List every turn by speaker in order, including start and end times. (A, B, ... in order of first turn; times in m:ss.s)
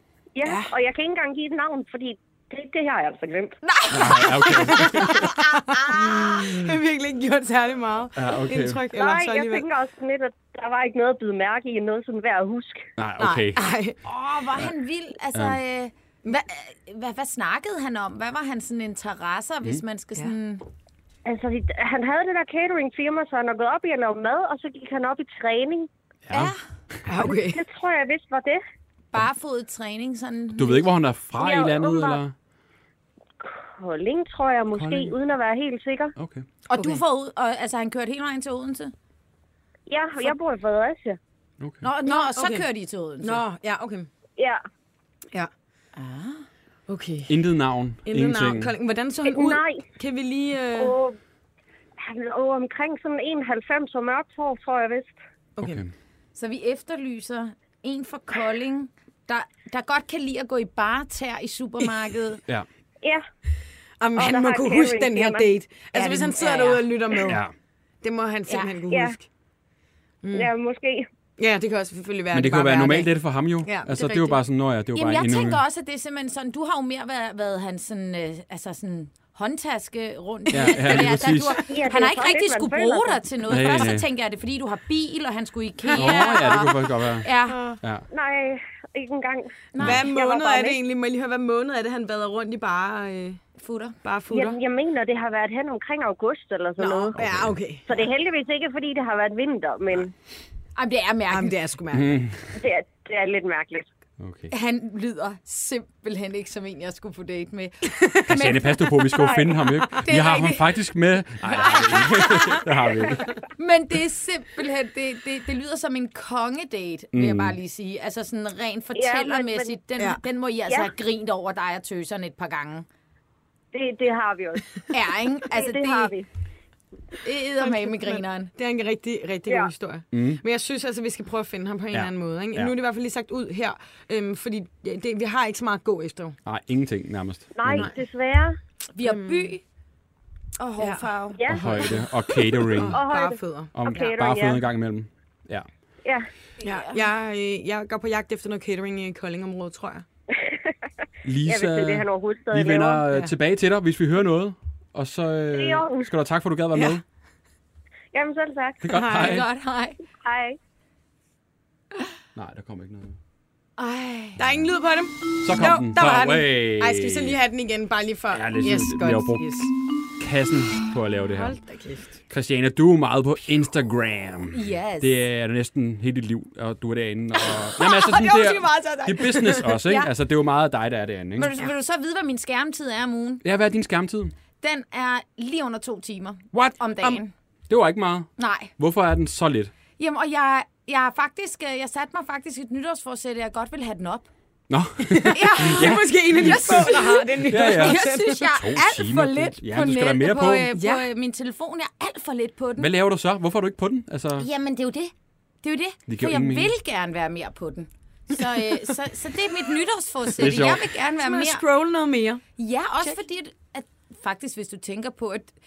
0:00.4-0:03.6 A
0:00.4-0:00.7 B
0:03.6-0:04.8 C
0:03.9-0:05.3 D
0:04.4-0:09.6 B
0:05.8-0:06.4 C
0:08.2-0:08.8 D
0:08.9-0:12.9 A
0:13.0-0:13.6 D
0:13.2-0:14.0 B
0:14.0-0:20.6 C
0:21.2-0:25.9 A
0:26.3-0:26.5 D
0:26.3-0:26.6 C
0:27.0-0:27.6 B
0:27.4-0:28.6 A
0:29.1-0:30.9 C
0:30.6-0:32.3 D
0:31.4-0:32.2 A
0:33.4-0:36.1 A
0:34.7-0:35.1 D
0:36.2-0:36.4 D
0:36.7-0:38.9 C
0:36.7-0:37.0 B
0:39.9-0:41.2 A
0:41.6-0:41.8 D
0:41.8-0:43.4 C
0:42.0-0:42.7 B
0:43.2-0:44.1 B
0:44.4-0:44.6 A
0:46.0-0:46.4 C
0:46.9-0:47.4 B
0:47.3-0:48.7 D
0:48.0-0:51.0 B
0:49.3-0:49.8 A
0:50.7-0:51.2 A
0:52.0-0:55.1 A
0:55.6-0:55.8 B
0:55.6-0:55.9 D
0:56.3-1:02.4 C
1:04.0-1:07.4 B
1:04.2-1:05.5 A
1:05.9-1:07.3 C
1:07.2-1:07.5 D
1:08.0-1:09.2 B
1:08.9-1:09.2 A
1:10.2-1:10.5 B
1:10.3-1:11.1 A
1:11.4-1:13.1 B
1:12.3-1:15.6 D
1:13.6-1:14.3 B
1:14.9-1:27.6 C
1:20.5-1:21.6 D
1:21.7-1:23.2 A
1:23.5-1:24.0 D
1:25.9-1:26.5 B
1:26.0-1:27.3 D
1:27.5-1:27.8 B
1:28.1-1:30.8 A
1:29.7-1:30.0 C
1:29.8-1:33.4 B
1:33.6-1:34.0 C
1:34.0-1:34.6 B
1:34.3-1:37.2 A
1:36.8-1:37.8 B
1:37.2-1:37.6 D
1:37.9-1:40.1 A
1:40.8-1:41.6 C
1:41.3-1:42.2 B
1:41.9-1:42.4 D
1:42.5-1:43.8 A
1:44.2-1:44.5 D
1:44.5-1:49.4 C
1:48.3-1:53.2 D
1:49.2-1:49.5 A
1:50.0-1:50.7 C
1:51.4-1:52.7 C
1:53.6-2:02.8 C
1:57.1-1:57.6 D
1:59.0-1:59.7 A
2:03.7-2:04.8 A
2:04.9-2:06.1 C
2:05.5-2:06.3 A
2:07.2-2:08.5 C
2:07.6-2:16.4 B
2:10.1-2:10.4 D
2:11.9-2:12.7 D
2:16.4-2:17.9 D
2:17.6-2:18.6 A
2:17.7-2:18.0 B
2:19.0-2:19.6 C
2:19.0-2:19.5 B
2:20.6-2:21.9 C
2:20.8-2:21.1 B
2:21.4-2:21.6 A
2:21.5-2:23.0 D
2:22.5-2:24.0 B
2:22.9-2:24.6 A
2:23.7-2:25.7 D
2:26.6-2:27.0 C
2:26.6-2:30.0 B
2:30.3-2:30.7 A
2:31.2-2:37.0 D
2:31.4-2:33.0 A
2:35.5-2:36.1 A
2:38.1-2:38.8 A
2:38.8-2:39.4 D
2:38.9-2:39.4 B
2:39.1-2:40.0 C
2:40.2-2:40.6 A
2:42.4-2:43.2 D
2:43.8-2:44.4 C
2:44.4-2:49.7 B
2:45.4-2:47.4 D
2:48.3-2:49.7 D
2:50.2-2:51.6 D
2:51.3-2:52.2 B
2:52.3-3:01.5 D
2:54.5-2:55.1 C
2:57.5-2:59.7 B
2:59.8-3:00.1 C
3:01.4-3:03.4 C
3:03.4-3:04.3 D
3:04.6-3:07.3 C
3:07.7-3:09.7 D
3:08.4-3:08.7 C
3:10.0-3:14.3 C
3:14.7-3:16.9 D
3:15.1-3:18.4 B
3:15.3-3:22.9 C
3:17.4-3:20.7 D
3:20.7-3:21.0 B
3:22.8-3:24.5 D
3:24.4-3:25.1 C
3:25.6-3:31.6 C
3:26.1-3:26.7 D
3:30.4-3:30.9 D
3:31.2-3:32.4 B
3:32.6-3:35.5 C